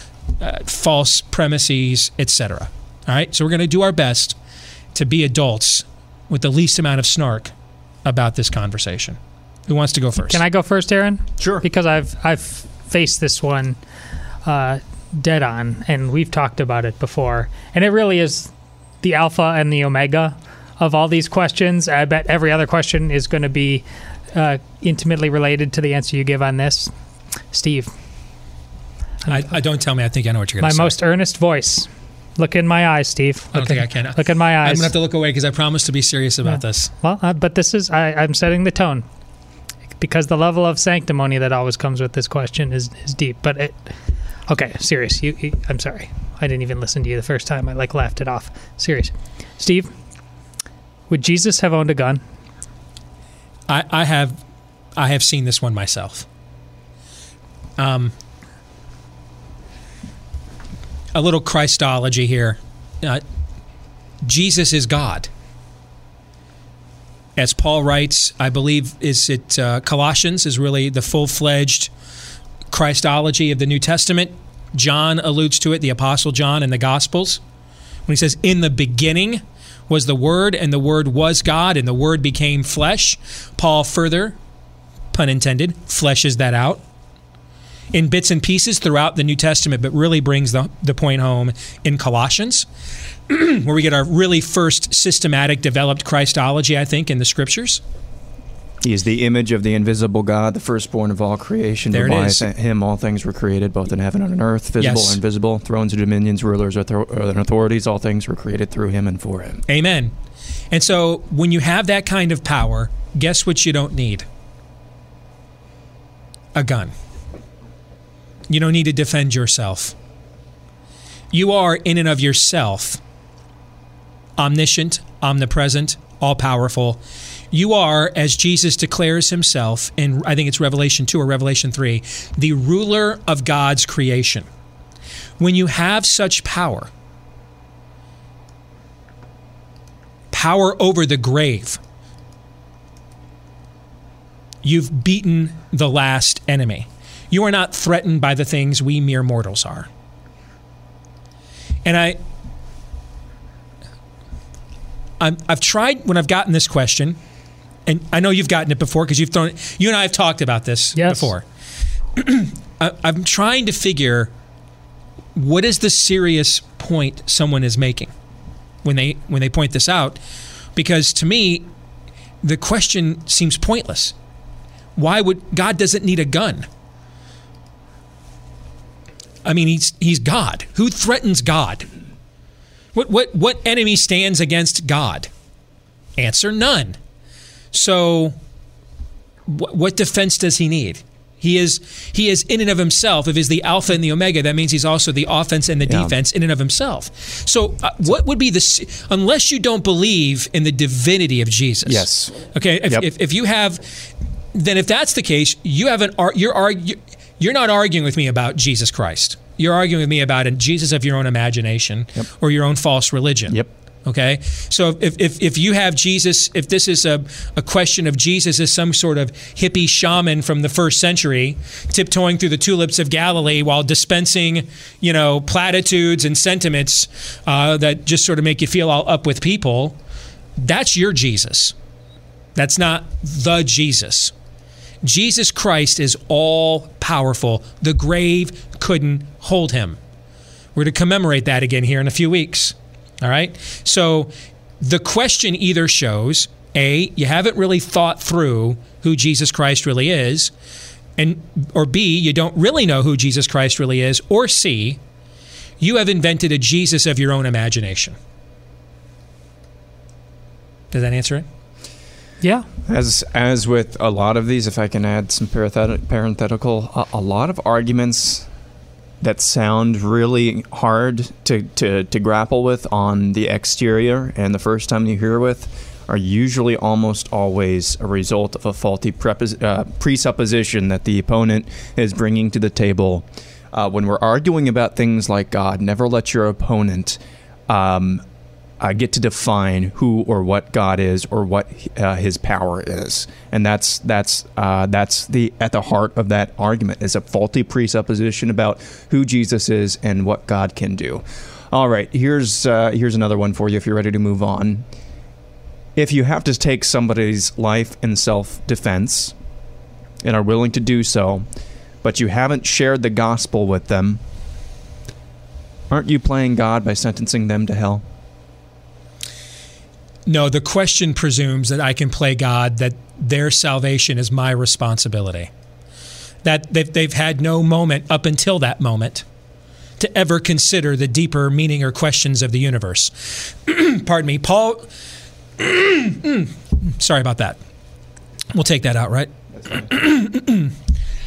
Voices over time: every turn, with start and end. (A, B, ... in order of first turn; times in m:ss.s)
0:00.4-0:04.4 A
0:04.9-0:07.5 A
0:08.0-0:10.4 A
0:10.3-0:13.8 B
0:11.4-0:11.6 C
0:14.4-0:26.9 B
0:27.5-0:27.9 B
0:29.3-0:30.9 A
0:30.6-0:34.9 B
0:33.5-0:36.9 A
0:36.5-0:39.0 B
0:40.0-0:43.9 B
0:44.5-0:49.9 B
0:51.1-0:52.2 B
0:53.7-0:54.4 A
0:55.0-0:56.3 A
0:57.8-0:58.1 A
1:01.1-1:03.2 A
1:04.2-1:05.3 A
1:07.4-1:11.9 A
1:12.7-1:17.4 A
1:18.1-1:24.4 A
1:25.1-1:26.8 A
1:27.9-1:32.7 A
1:33.3-1:37.8 A
1:38.8-1:49.6 C
1:41.9-1:42.5 A
1:44.8-1:45.2 A
1:49.7-1:50.1 A
1:50.7-1:54.2 A
1:56.6-1:56.9 A
1:58.5-2:00.0 A
2:01.3-2:03.0 A
2:04.4-2:07.0 A
2:07.5-2:14.5 A
2:15.4-2:16.9 A
2:20.3-2:21.8 A
2:24.6-2:29.9 A
2:31.8-2:32.2 A
2:35.2-2:37.2 A
2:37.9-2:41.4 A
2:40.9-2:41.3 B
2:42.2-2:44.3 A
2:45.4-2:48.1 A
2:48.8-2:50.2 A
2:50.8-2:51.7 A
2:52.4-2:54.1 A
2:55.0-2:56.7 A
2:59.4-3:01.9 A
3:03.0-3:05.3 A
3:06.2-3:07.0 A
3:07.7-3:08.4 A
3:09.5-3:23.8 A
3:15.9-3:16.2 C
3:21.8-3:23.1 C
3:24.5-3:50.0 A
3:50.6-3:51.7 A
3:52.6-3:54.3 A
3:55.0-4:00.0 A
4:00.8-4:10.5 A
4:11.2-4:15.0 A
4:15.8-4:18.2 A
4:20.9-4:21.4 A
4:22.9-4:28.5 C
4:29.2-4:48.2 C
4:48.8-5:04.9 C
5:06.0-5:09.3 C
5:10.2-5:11.5 C
5:12.0-5:14.2 C
5:15.9-5:18.0 C
5:20.3-5:25.5 A
5:26.4-5:29.2 A
5:30.0-5:34.9 A
5:35.6-5:37.6 A
5:38.5-5:40.8 A